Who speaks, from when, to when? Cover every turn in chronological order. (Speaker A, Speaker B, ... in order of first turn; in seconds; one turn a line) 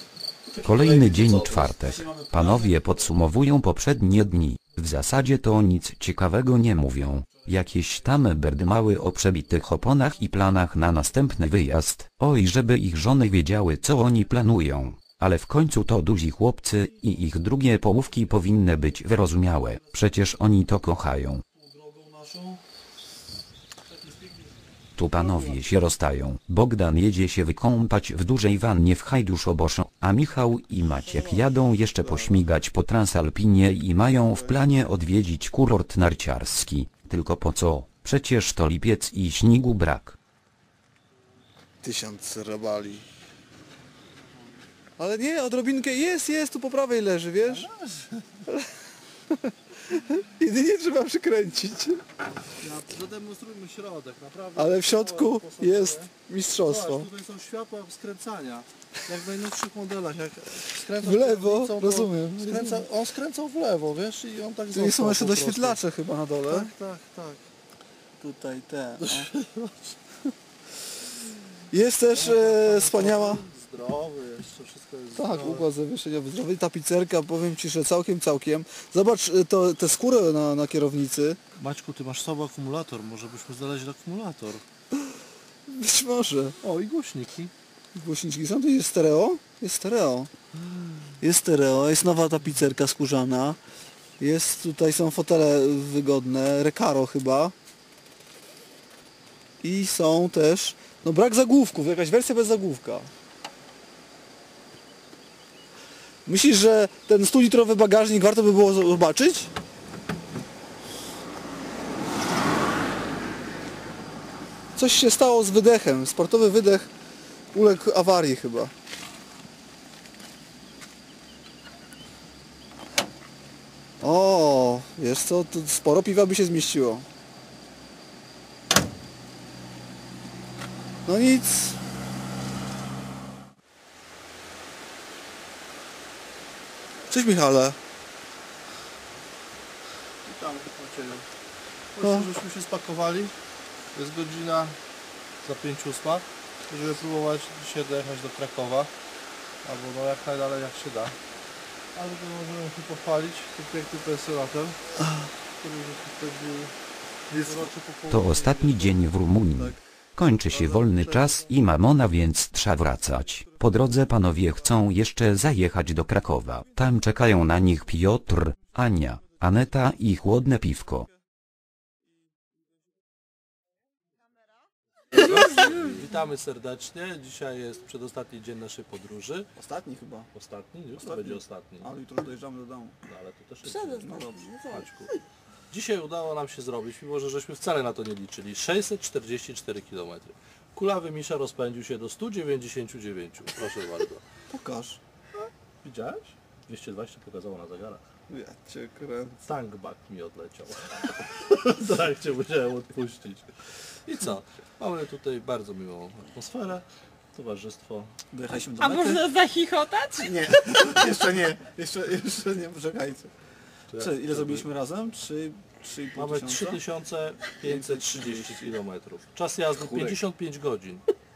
Speaker A: 0.5-3.1
Speaker B: 0.6-21.4
Speaker A: 19.7-20.1
Speaker A: 21.5-22.6
Speaker B: 25.0-40.2
Speaker A: 31.1-31.4
Speaker A: 32.0-32.4
Speaker A: 41.8-43.0
Speaker A: 45.0-47.7
Speaker C: 47.4-48.4
Speaker A: 49.9-52.0
Speaker C: 52.6-56.1
Speaker A: 54.5-57.1
Speaker C: 56.6-65.8
Speaker A: 61.0-62.8
Speaker A: 64.7-66.7
Speaker C: 66.5-67.4
Speaker A: 68.2-69.3
Speaker C: 69.0-69.9
Speaker A: 71.7-73.4
Speaker C: 72.1-75.7
Speaker A: 75.2-81.4
Speaker C: 81.5-84.6
Speaker A: 85.7-86.5
Speaker C: 86.6-87.5
Speaker A: 87.9-90.3
Speaker A: 91.2-93.6
Speaker A: 94.2-97.5
Speaker A: 99.6-103.1
Speaker A: 106.2-109.5
Speaker A: 114.8-116.9
Speaker A: 117.5-118.7
Speaker A: 124.0-127.0
Speaker A: 131.1-131.8
Speaker A: 137.1-137.8
Speaker C: 140.2-141.2
Speaker C: 141.9-143.3
Speaker A: 142.0-142.3
Speaker C: 143.9-144.8
Speaker C: 145.4-148.9
Speaker C: 149.6-151.2
Speaker C: 151.9-154.8
Speaker A: 155.0-155.3
Speaker C: 155.6-156.7
Speaker C: 157.3-159.0
Speaker B: 158.1-171.1
Speaker C: 175.1-179.5
Speaker A: 179.6-180.3
Speaker C: 180.3-181.9
Speaker A: 181.0-182.9
Speaker C: 183.0-184.1
Speaker D: 183.6-184.9
Speaker A: 184.0-184.5
Speaker C: 184.7-185.1
Speaker C: 185.7-194.2
Speaker A: 194.5-195.0
Speaker C: 195.8-198.0
Speaker A: 198.3-199.4
Speaker C: 199.4-203.5
Speaker C: 204.0-208.1
Speaker A: 208.3-209.3
Speaker D: 208.8-210.8
Speaker A: 210.2-213.3
Speaker C: 213.9-214.7
Speaker A: 213.9-216.8
Speaker C: 216.2-221.1
Speaker A: 217.6-218.7